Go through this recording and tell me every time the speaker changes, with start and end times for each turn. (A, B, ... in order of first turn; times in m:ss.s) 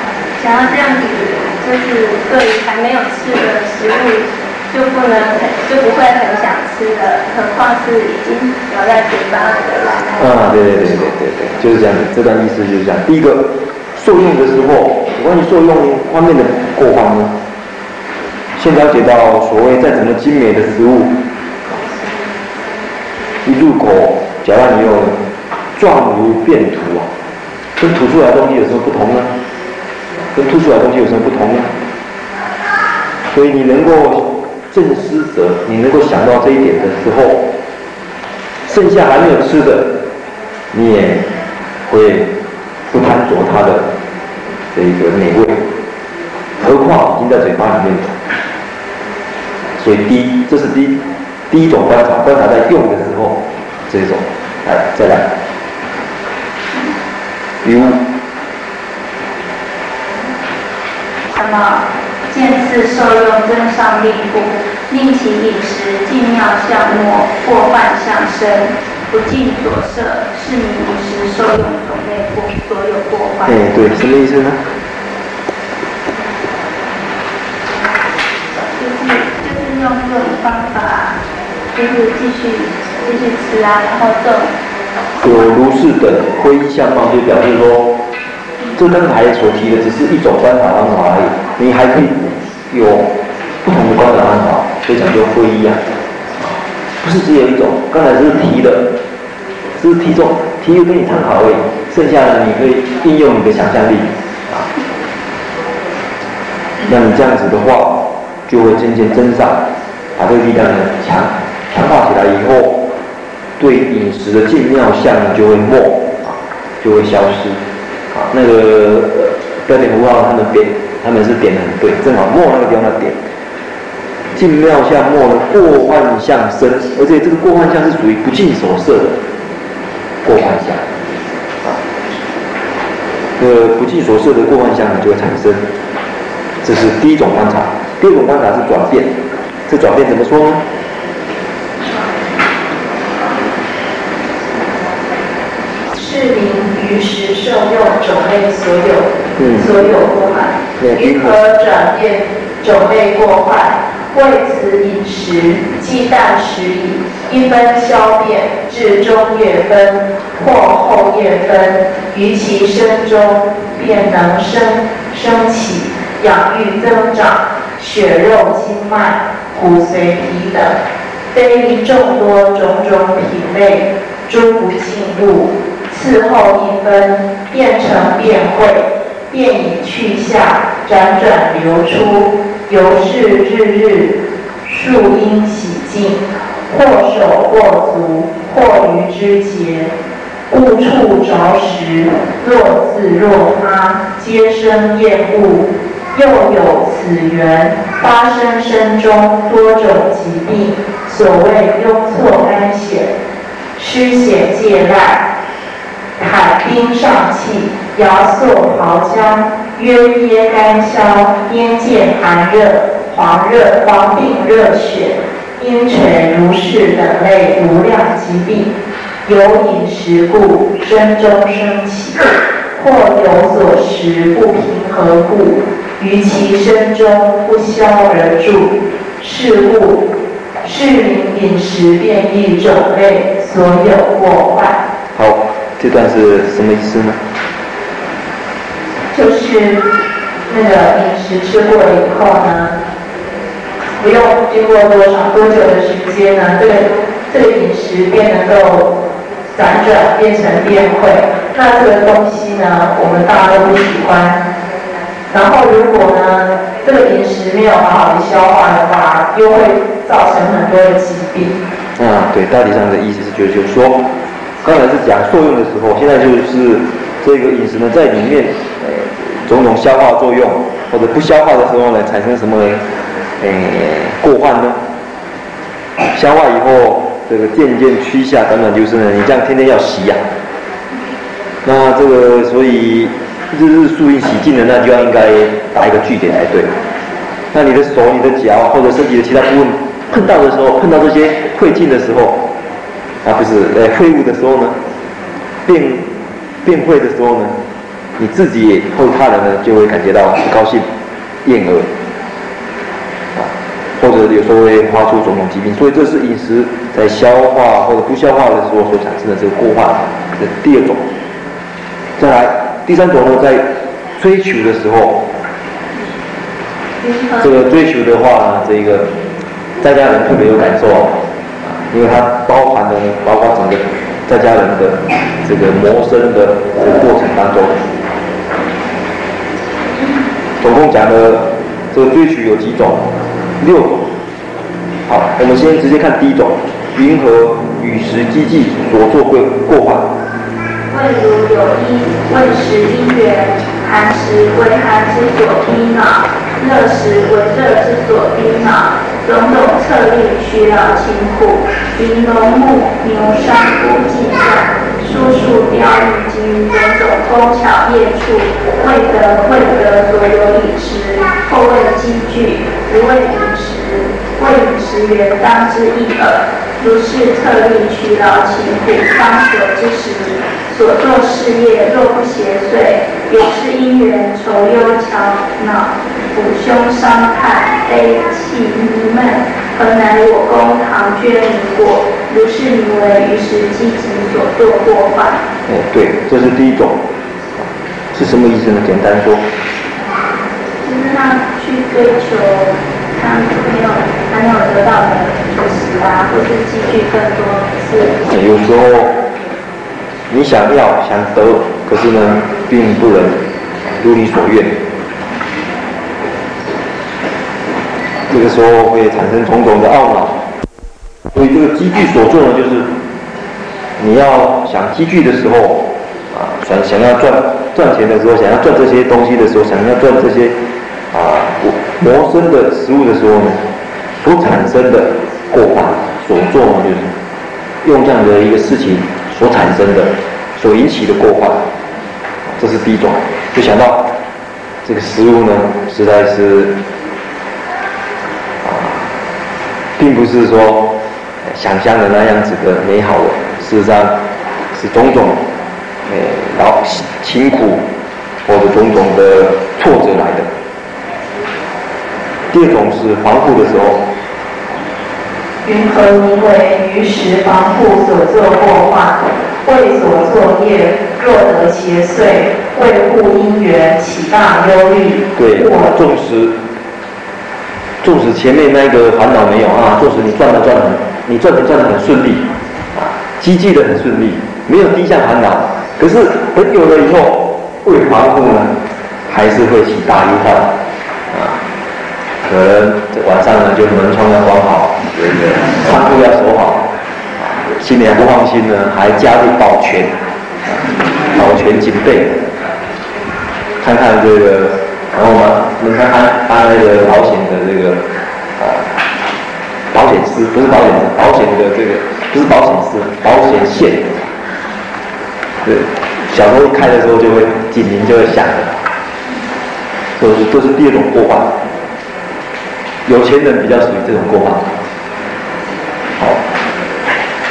0:00.4-0:10.5 A
0:10.2-0:17.4 B
0:18.6-0:21.2 B
0:23.4-0:25.2 B
0:25.8-0:27.1 B
0:27.8-0:29.3 B
0:30.3-0:31.7 B
0:33.3-0:37.4 B
0:38.7-0:39.9 B
0:40.7-0:41.2 B
0:41.9-0:42.3 B
0:42.9-0:43.9 B
0:44.7-0:45.6 B
0:46.6-0:48.2 B
0:49.8-0:55.3 B
0:57.6-0:58.0 B
1:01.3-1:13.6 A
1:13.4-1:14.6 B
1:18.8-1:21.2 A
1:21.7-1:24.5 A
1:25.2-1:27.9 B
1:28.8-1:33.1 B
1:33.6-1:35.8 B
1:36.4-1:38.9 B
1:39.8-1:44.7 B
1:46.8-1:49.6 B
1:50.2-1:52.8 B
1:53.6-1:57.6 B
1:58.1-2:03.2 B
2:04.4-2:09.2 B
2:10.2-2:10.8 B
2:13.4-2:15.6 B
2:16.6-2:19.1 B
2:19.7-2:20.6 B
2:25.9-2:50.7 C
2:29.4-2:29.7 B
2:30.8-2:31.4 B
2:51.3-3:04.1 C
3:04.6-3:09.9 C
3:10.5-3:23.1 C
3:23.8-3:25.2 C
3:26.2-3:38.7 C
3:39.2-3:50.0 C
3:50.6-3:54.8 C
3:55.1-3:57.2 B
3:59.1-3:59.8 C
4:00.5-4:02.7 C
4:04.0-4:08.9 C
4:09.5-4:14.4 C
4:15.3-4:21.6 C
4:22.0-4:24.0 B
4:24.6-4:32.8 B
4:33.4-4:34.8 B
4:36.1-4:40.2 B
4:41.6-4:46.7 B
4:47.5-4:52.4 B
4:53.2-4:54.8 B
4:55.7-4:56.1 B
4:56.6-4:57.6 B
4:58.2-5:00.9 B
5:01.4-5:01.9 B
5:03.4-5:11.0 B
5:12.2-5:15.2 B
5:17.0-5:17.5 A
5:17.4-5:19.1 B
5:19.8-5:27.9 B
5:30.6-5:33.0 B
5:33.6-5:34.0 B
5:35.1-5:40.1 B
5:40.9-6:25.4 A
6:25.7-6:27.0 B
6:28.1-6:29.4 B
6:30.8-6:38.2 A
6:38.2-6:39.1 B
6:40.3-6:43.4 B
6:44.0-6:44.7 B
6:48.3-6:50.4 B
6:51.3-6:52.9 B
6:54.0-7:00.6 B
7:01.1-7:03.6 B
7:04.2-7:07.1 B
7:07.8-7:11.6 B
7:12.6-7:14.1 B
7:14.8-7:16.7 B
7:18.6-7:19.1 B
7:20.0-7:20.9 B
7:21.4-7:24.2 B
7:24.7-7:25.4 B
7:26.1-7:27.8 B
7:28.4-7:30.5 B
7:32.5-7:34.0 B
7:35.6-7:45.9 C
7:45.4-7:46.6 B
7:48.0-7:58.7 B
7:59.3-8:00.7 B
8:01.3-8:01.6 B
8:02.4-8:06.8 B
8:07.4-8:10.1 B
8:11.3-8:12.4 B
8:13.8-8:18.0 B
8:18.6-8:18.9 B
8:19.9-8:24.1 B
8:25.6-8:28.8 B
8:30.2-8:31.5 B
8:33.1-8:34.6 B